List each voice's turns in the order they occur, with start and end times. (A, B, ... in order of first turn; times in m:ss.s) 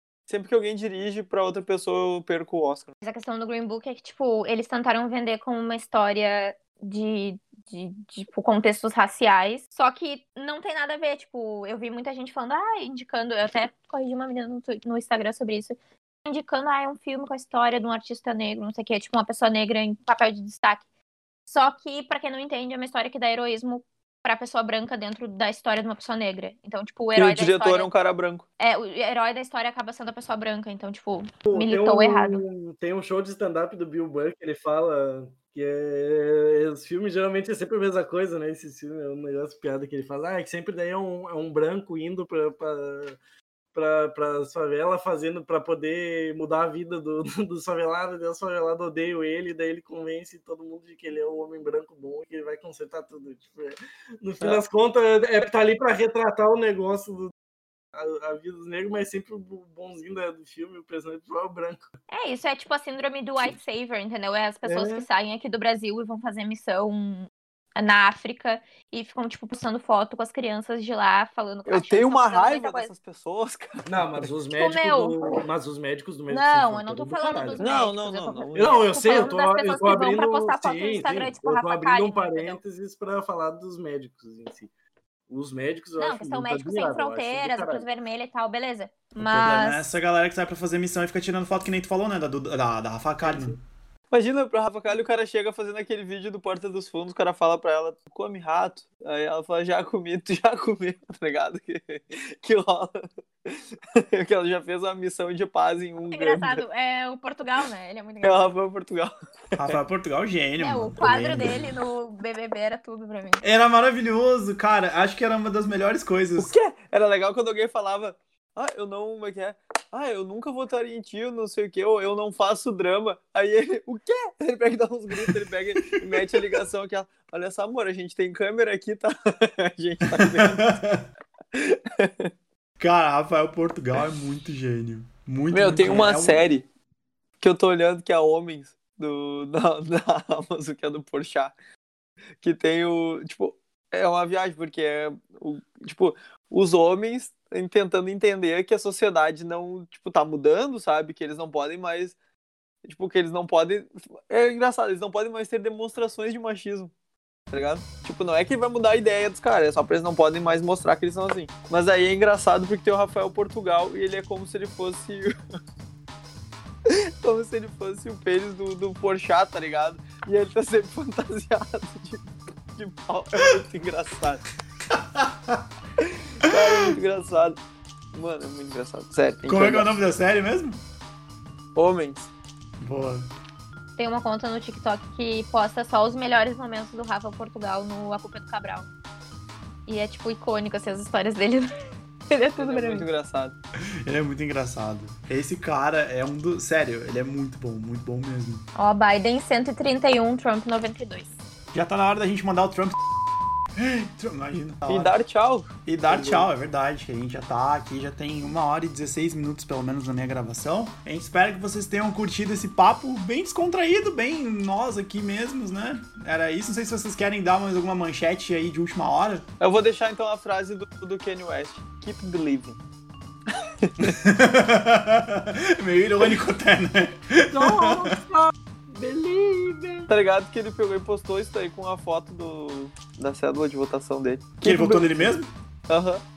0:00.3-0:02.9 A
0:03.0-0:20.8 B
0:21.5-0:27.9 B
0:27.1-0:28.4 A
0:28.6-0:32.4 B
0:31.5-0:43.2 C
0:43.7-0:57.3 C
0:57.9-1:01.9 C
1:02.1-1:12.9 B
1:04.6-1:05.0 C
1:11.7-1:14.2 A
1:13.8-1:17.9 C
1:14.5-1:15.4 B
1:16.3-1:22.6 B
1:17.6-1:18.9 A
1:18.5-1:24.7 C
1:25.3-1:27.9 C
1:26.0-1:29.9 B
1:29.2-1:33.6 D
1:33.2-1:33.6 C
1:34.1-1:46.6 A
1:46.1-1:48.5 B
1:48.2-1:49.8 A
1:49.6-1:51.7 D
1:50.6-1:53.4 B
1:53.4-1:56.5 D
1:56.4-2:10.7 A
2:06.0-2:06.6 D
2:10.1-2:11.0 D
2:11.5-2:12.3 A
2:12.8-2:16.4 D
2:15.5-2:16.6 A
2:17.4-2:21.5 A
2:22.4-2:32.2 A
2:32.8-2:36.9 A
2:37.5-2:45.3 A
2:46.8-2:54.4 A
2:54.9-2:55.6 D
2:56.0-2:57.6 A
2:58.1-2:59.9 A
2:59.5-3:00.8 D
3:01.7-3:02.3 A
3:02.8-3:03.2 D
3:04.0-3:08.9 B
3:09.9-3:11.7 B
3:12.3-3:13.0 B
3:12.6-3:13.6 A
3:14.0-3:18.6 D
3:18.7-3:21.3 B
3:21.7-3:23.0 D
3:23.7-3:25.1 D
3:24.9-3:26.5 A
3:25.8-3:39.4 D
3:39.6-3:42.8 A
3:43.8-3:44.2 A
3:44.0-3:48.0 D
3:47.5-3:50.1 C
3:50.1-3:55.4 A
3:54.6-3:55.5 D
3:55.9-3:56.2 A